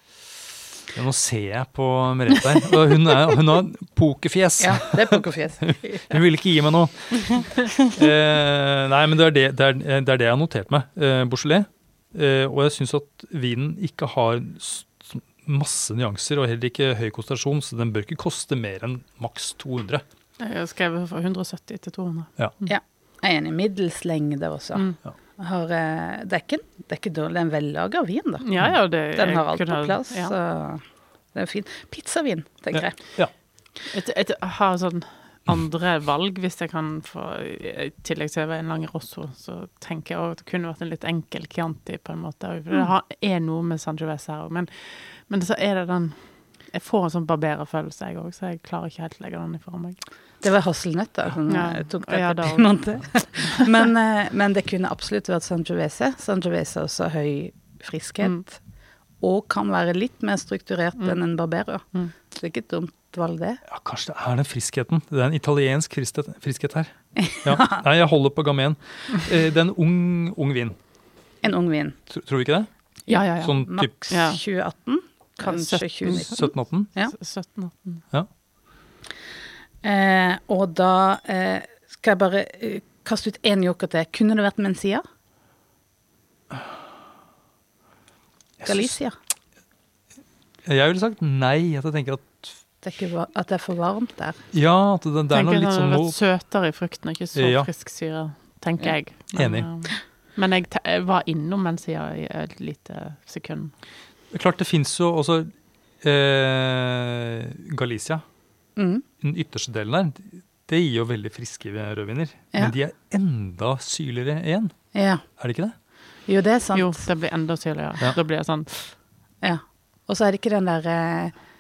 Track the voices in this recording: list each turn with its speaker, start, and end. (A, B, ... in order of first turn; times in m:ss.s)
0:00.9-0:20.0 A
0:04.6-0:05.7 B
0:20.4-0:22.8 C
0:22.7-0:28.5 B
0:28.4-0:30.4 C
0:29.2-0:30.8 B
0:31.3-0:33.0 B
0:32.7-0:33.3 A
0:33.9-0:50.0 C
0:50.4-0:58.6 B
0:51.5-0:53.7 C
0:59.2-1:03.6 B
1:03.7-1:10.8 A
1:07.2-1:07.8 B
1:11.4-1:12.0 B
1:12.1-1:12.7 A
1:13.1-1:14.4 C
1:13.3-1:13.9 A
1:13.6-1:16.4 B
1:15.4-1:18.0 C
1:16.1-1:16.9 A
1:19.8-1:25.0 B
1:28.6-1:29.2 B
1:30.6-1:32.6 A
1:32.8-1:34.4 B
1:34.5-1:36.2 A
1:35.3-1:43.7 C
1:37.4-1:37.7 A
1:39.3-1:39.7 A
1:44.3-1:45.5 A
1:46.0-1:48.2 A
1:48.8-1:49.0 B
1:49.2-1:54.7 A
1:54.9-1:55.2 B
1:55.4-1:55.7 A
1:56.3-1:57.0 B
1:56.7-1:58.8 C
1:59.4-2:01.3 B